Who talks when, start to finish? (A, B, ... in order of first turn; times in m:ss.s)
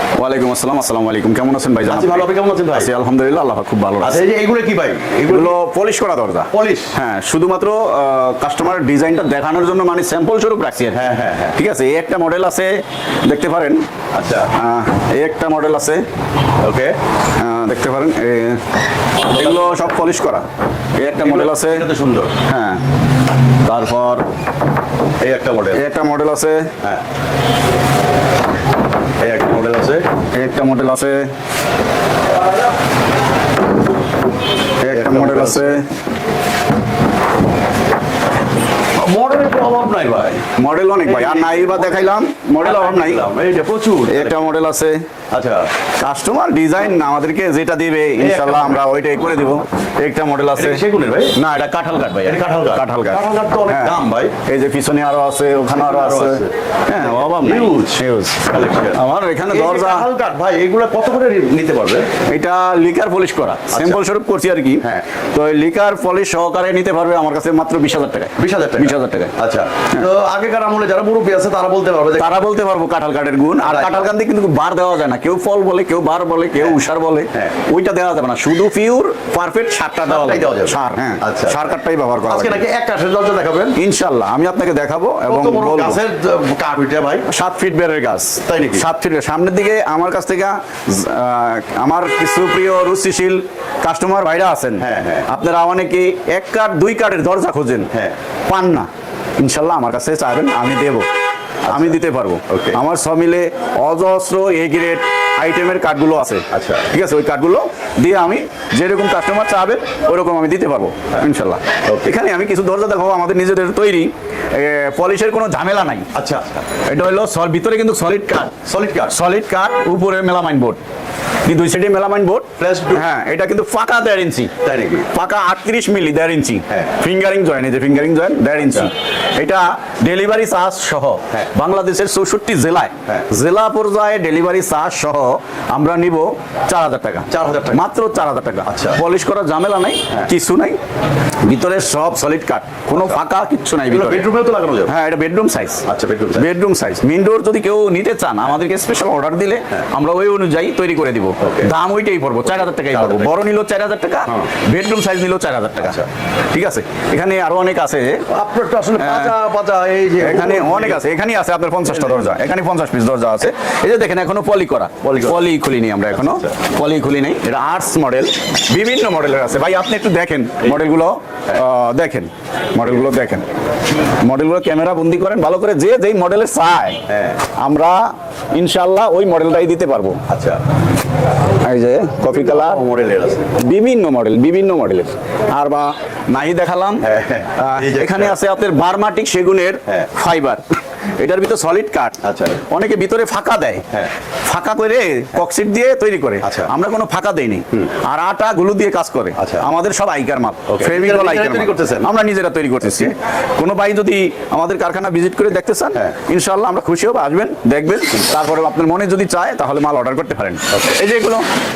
0:00.2-0:04.2 A
0:01.8-0:02.9 B
0:04.0-0:05.6 B
0:05.3-0:11.0 A
0:06.5-0:07.0 B
0:10.9-0:11.6 B
0:11.6-0:13.8 A
0:14.1-0:14.5 B
0:14.5-0:16.0 A
0:16.6-0:17.0 B
0:17.4-0:18.6 A
0:19.2-0:20.5 A
0:21.0-0:21.9 A
0:21.2-0:22.4 B
0:22.5-0:22.8 A
0:23.6-0:24.2 A
0:25.2-0:25.8 B
0:25.7-0:26.7 A
0:29.2-0:30.1 B
0:30.3-0:31.3 A
0:34.8-0:35.9 A
0:34.9-0:35.8 B
0:39.0-0:40.5 B
0:40.6-0:43.3 A
0:41.0-0:44.4 B
0:44.1-0:45.0 A
0:45.3-0:45.7 B
0:46.0-0:50.8 A
0:48.2-0:48.8 B
0:50.6-0:51.4 B
0:51.3-1:00.1 A
0:52.2-0:54.3 B
0:55.8-1:02.1 B
1:02.3-1:09.3 A
1:03.7-1:04.0 B
1:08.4-1:12.4 B
1:12.2-1:22.6 A
1:13.6-1:14.0 B
1:20.1-1:21.7 B
1:22.3-1:23.8 B
1:23.8-1:26.0 A
1:25.3-1:27.3 B
1:27.3-1:37.9 A
1:28.4-1:28.9 B
1:34.8-1:35.3 B
1:38.5-1:41.1 A
1:41.7-1:56.1 A
1:41.7-1:42.0 B
1:42.5-1:42.8 B
1:46.5-1:46.9 B
1:51.8-1:52.2 B
1:56.1-1:56.7 B
1:56.9-1:58.6 A
1:58.6-1:59.2 B
1:59.1-2:00.8 A
2:01.4-2:04.5 A
2:02.6-2:03.0 B
2:04.6-2:05.1 B
2:05.1-2:20.8 A
2:17.3-2:17.8 B
2:18.6-2:19.0 B
2:21.4-2:24.3 A
2:23.9-2:24.9 B
2:24.9-2:38.2 A
2:25.9-2:26.5 B
2:31.4-2:31.7 B
2:32.6-2:33.3 B
2:35.8-2:36.1 B
2:38.3-2:41.0 B
2:39.0-2:39.3 A
2:40.2-2:53.5 A
2:45.0-2:45.5 B
2:54.2-3:00.2 A
2:57.1-2:57.4 B
3:00.3-3:00.6 B
3:01.6-3:02.8 A
3:02.3-3:03.5 B
3:03.6-3:10.6 A
3:07.0-3:08.4 B
3:11.2-3:13.8 A
3:12.2-3:12.6 B
3:14.4-3:31.5 A
3:16.4-3:16.7 B
3:19.4-3:19.7 B
3:20.7-3:22.1 B